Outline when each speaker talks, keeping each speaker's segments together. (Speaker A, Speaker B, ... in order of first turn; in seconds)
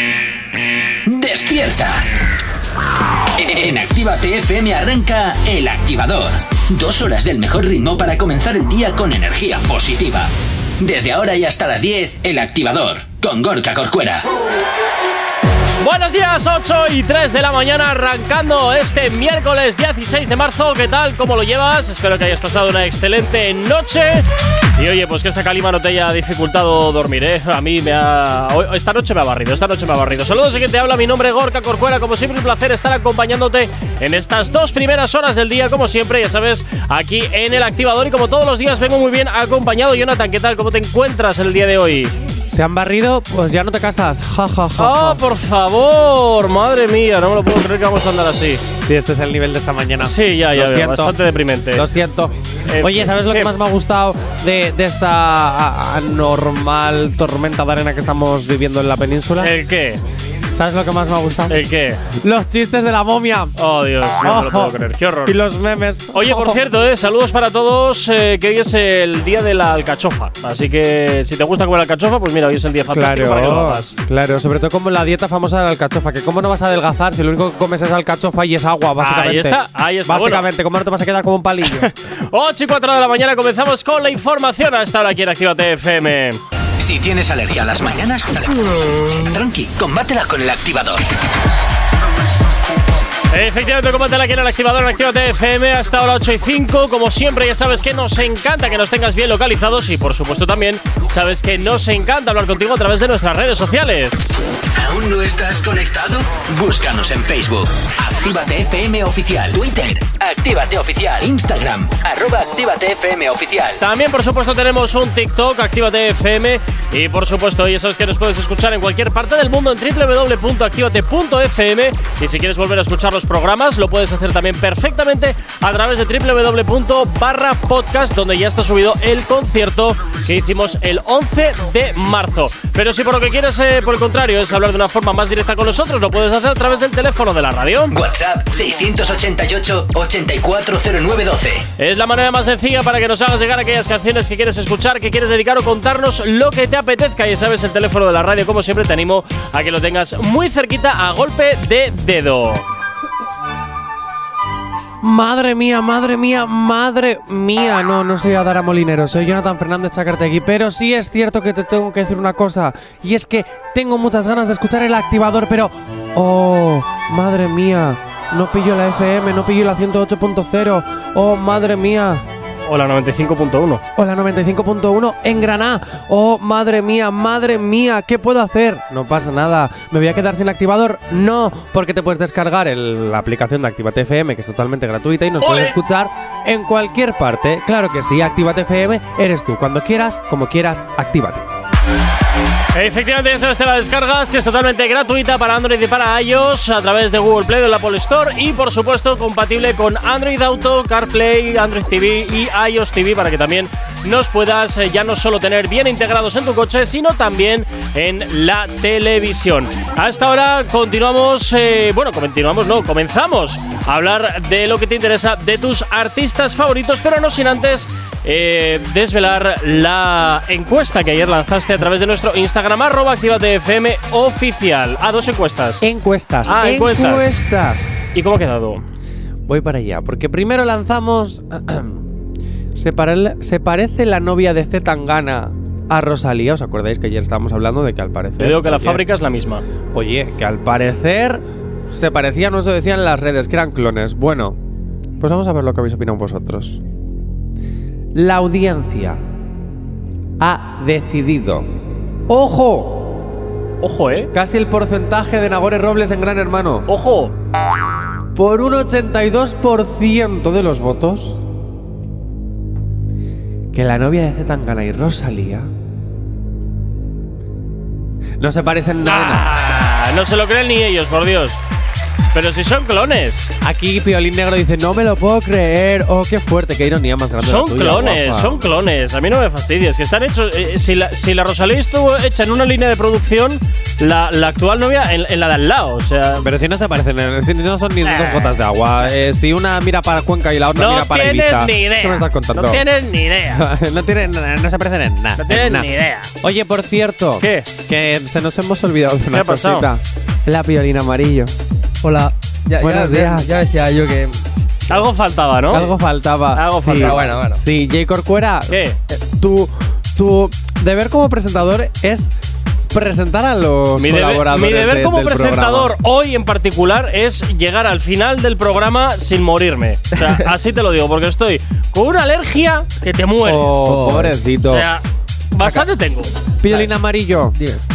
Speaker A: 1.1-2.0, 3.3-14.2, 86.8-91.0, 104.7-113.8, 137.9-141.7
Speaker B: 15.8-24.2, 24.8-42.1, 44.8-48.6, 50.0-51.9, 52.7-53.5, 59.4-60.0, 61.5-62.0, 63.6-65.4, 66.1-74.0, 79.0-80.5, 81.7-86.4, 93.3-104.3, 113.8-137.9, 141.8-152.7, 172.7-173.8, 185.4-185.7, 192.7-225.8, 226.4-227.3, 228.1-228.8, 238.4-239.6, 253.8-254.3, 256.9-257.3, 269.0-271.6, 272.3-273.5, 277.4-286.5, 288.0-288.6, 290.7-293.6, 295.4-296.3, 297.4-297.7, 299.3-299.9, 304.9-305.9, 306.5-307.2, 308.7-309.0, 314.0-323.9, 324.6-326.3
Speaker C: 42.5-45.2, 48.8-51.2, 51.7-59.5, 60.5-63.5, 64.2-66.6, 72.9-81.9, 155.0-172.2, 173.9-191.5, 225.8-228.1, 229.5-232.1, 232.7-239.0, 239.9-244.6, 245.2-246.8, 248.1-249.2, 250.4-251.7, 252.3-253.3, 254.3-256.9, 258.3-261.4, 263.7-265.7, 268.4-269.5, 273.6-278.7, 286.4-292.8, 293.5-295.9, 296.4-301.5, 302.8-303.5, 305.7-312.3, 312.9-315.9, 323.4-324.9, 325.6-325.9, 326.6-327.6
Speaker D: 302.0-304.4, 306.9-307.6, 323.8-324.4